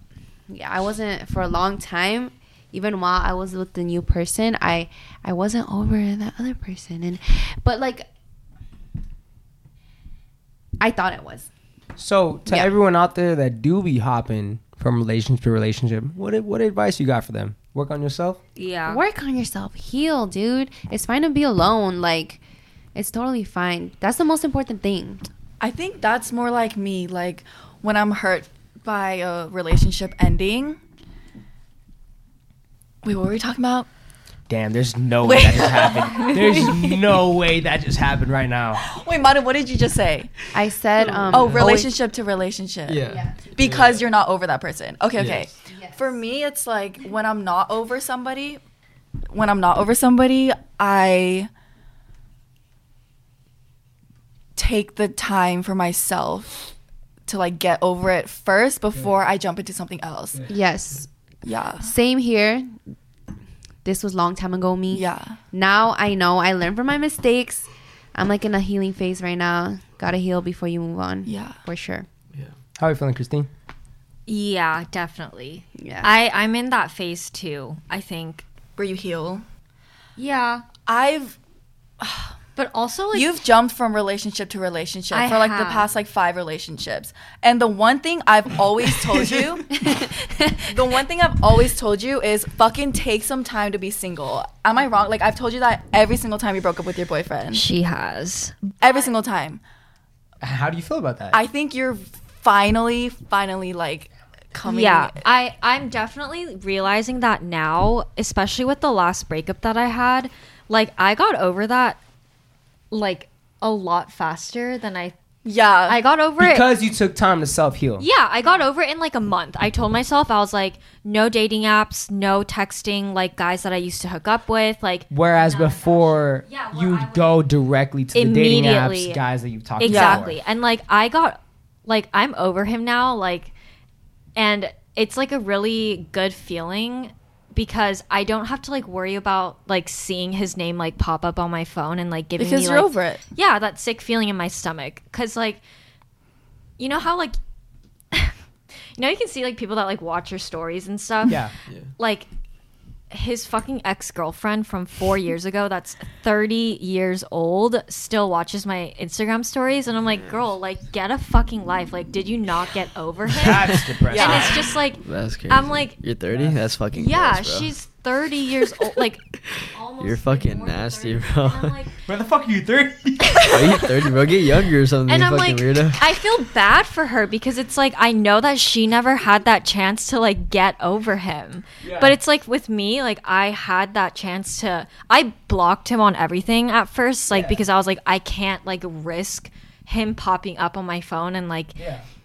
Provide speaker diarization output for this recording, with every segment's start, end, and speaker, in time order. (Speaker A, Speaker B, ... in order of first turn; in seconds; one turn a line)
Speaker A: 0.5-8.1
Speaker A: 10.8-11.5
Speaker B: 12.0-18.4
Speaker A: 12.4-12.7
Speaker C: 18.6-19.0
Speaker A: 18.9-22.4
Speaker A: 22.9-25.2
Speaker D: 25.6-30.8
Speaker D: 33.0-33.9
Speaker B: 34.5-38.8
Speaker D: 35.2-36.8
Speaker D: 38.8-40.3
Speaker A: 40.5-41.9
Speaker E: 41.3-41.7
Speaker D: 41.3-48.6
Speaker E: 42.9-44.1
Speaker A: 45.7-46.1
Speaker D: 49.3-51.5
Speaker D: 54.5-56.7
Speaker D: 57.3-60.5
Speaker A: 60.5-61.1
Speaker D: 61.4-61.9
Speaker A: 61.8-62.8
Speaker A: 63.8-72.1
Speaker D: 64.9-65.3
Speaker D: 71.2-71.6
Speaker B: 72.8-73.5
Speaker C: 74.3-78.4
Speaker A: 75.8-76.1
Speaker D: 78.8-79.4
Speaker C: 80.2-80.7
Speaker D: 80.8-81.3
Speaker D: 82.0-82.3
Speaker C: 82.5-83.3
Speaker D: 83.1-89.7
Speaker C: 85.1-85.9
Speaker D: 90.6-97.6
Speaker C: 97.5-99.1
Speaker D: 98.8-99.6
Speaker B: 100.4-101.4
Speaker D: 101.3-105.2
Speaker C: 104.6-112.0
Speaker C: 112.9-115.1
Speaker D: 115.4-116.0
Speaker C: 115.9-116.7
Speaker B: 116.4-118.0
Speaker C: 118.0-127.5
Speaker B: 125.1-130.4
Speaker C: 128.1-129.2
Speaker C: 129.8-133.5
Speaker D: 129.8-130.2
Speaker C: 134.3-145.6
Speaker D: 142.4-143.2
Speaker C: 146.8-147.4
Speaker C: 148.9-151.4
Speaker B: 151.3-151.5
Speaker C: 152.0-152.3
Speaker C: 153.1-166.0
Speaker B: 163.3-164.6
Speaker E: 163.5-163.8
Speaker D: 164.1-164.7
Speaker E: 165.0-167.7
Speaker B: 166.3-166.6
Speaker C: 166.9-171.9
Speaker E: 169.5-171.7
Speaker B: 172.1-173.6
Speaker E: 173.4-176.1
Speaker C: 175.1-191.8
Speaker B: 181.8-182.1
Speaker B: 187.3-187.6
Speaker B: 191.8-192.0